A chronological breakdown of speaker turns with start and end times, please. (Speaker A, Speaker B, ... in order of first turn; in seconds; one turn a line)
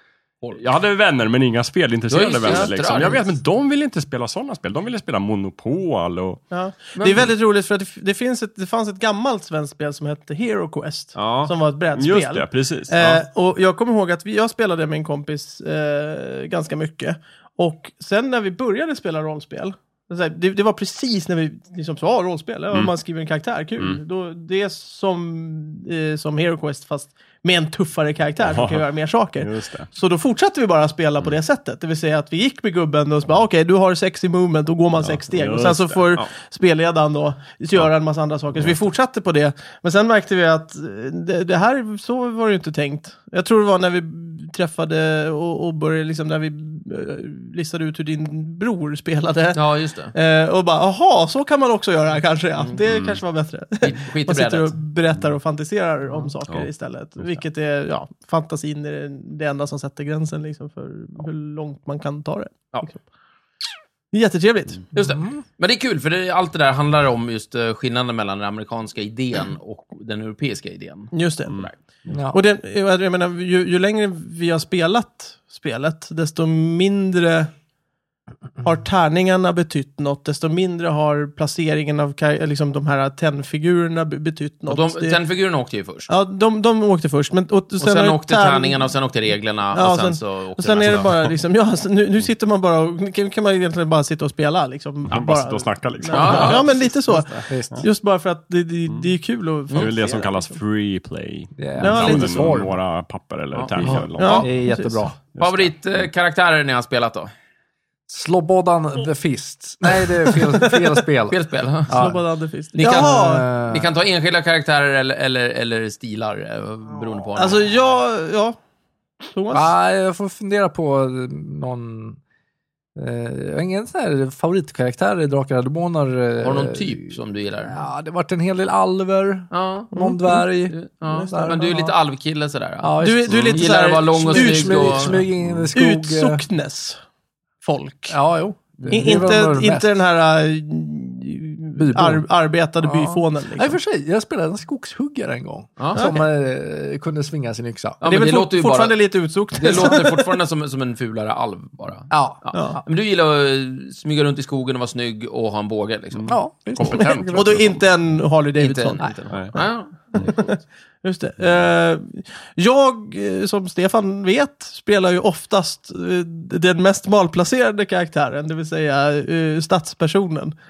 Speaker A: 0.5-6.4
Speaker B: 2.1-3.3
Speaker C: 6.5-49.6
Speaker B: 7.0-7.3
Speaker A: 11.1-13.2
Speaker A: 28.4-28.8
Speaker A: 29.4-29.9
Speaker A: 35.0-36.3
Speaker B: 49.5-50.1
Speaker C: 50.1-63.0
Speaker A: 52.8-53.2
Speaker B: 53.8-54.7
Speaker C: 64.1-64.8
Speaker B: 64.9-71.8
Speaker D: 65.0-65.4
Speaker C: 71.1-71.5
Speaker A: 71.5-72.1
Speaker D: 72.1-72.4
Speaker C: 72.3-77.5
Speaker C: 78.6-85.2
Speaker B: 84.7-86.1
Speaker C: 86.1-88.9
Speaker B: 87.8-91.1
Speaker C: 89.7-100.3
Speaker A: 90.8-91.3
Speaker A: 95.1-97.8
Speaker B: 96.1-96.7
Speaker D: 97.1-97.8
Speaker A: 98.9-99.1
Speaker B: 99.7-100.3
Speaker A: 99.7-104.5
Speaker D: 101.6-102.8
Speaker C: 101.8-102.6
Speaker B: 103.5-104.6
Speaker D: 103.8-105.2
Speaker C: 104.2-105.1
Speaker A: 105.3-106.0
Speaker B: 105.4-107.3
Speaker D: 108.1-112.2
Speaker C: 110.3-110.9
Speaker B: 111.3-112.1
Speaker C: 111.9-113.5
Speaker B: 112.7-117.7
Speaker D: 112.8-113.9
Speaker C: 117.4-118.6
Speaker C: 119.2-119.7
Speaker D: 119.5-122.2
Speaker D: 123.0-130.8
Speaker B: 126.4-127.8
Speaker B: 129.5-135.3
Speaker C: 129.9-130.4
Speaker C: 131.1-131.9
Speaker D: 131.3-131.9
Speaker D: 132.8-136.4
Speaker C: 133.0-137.0
Speaker A: 135.4-135.7
Speaker C: 137.6-138.2
Speaker D: 138.1-139.9
Speaker B: 138.8-139.2
Speaker C: 138.9-143.7
Speaker D: 141.8-142.2
Speaker D: 142.8-148.0
Speaker B: 145.8-146.1
Speaker B: 148.0-149.0
Speaker C: 148.0-150.3
Speaker B: 149.5-157.2
Speaker D: 152.1-152.8
Speaker D: 156.3-157.8
Speaker A: 156.9-157.7
Speaker C: 157.3-159.6
Speaker B: 158.6-160.3
Speaker C: 160.1-170.5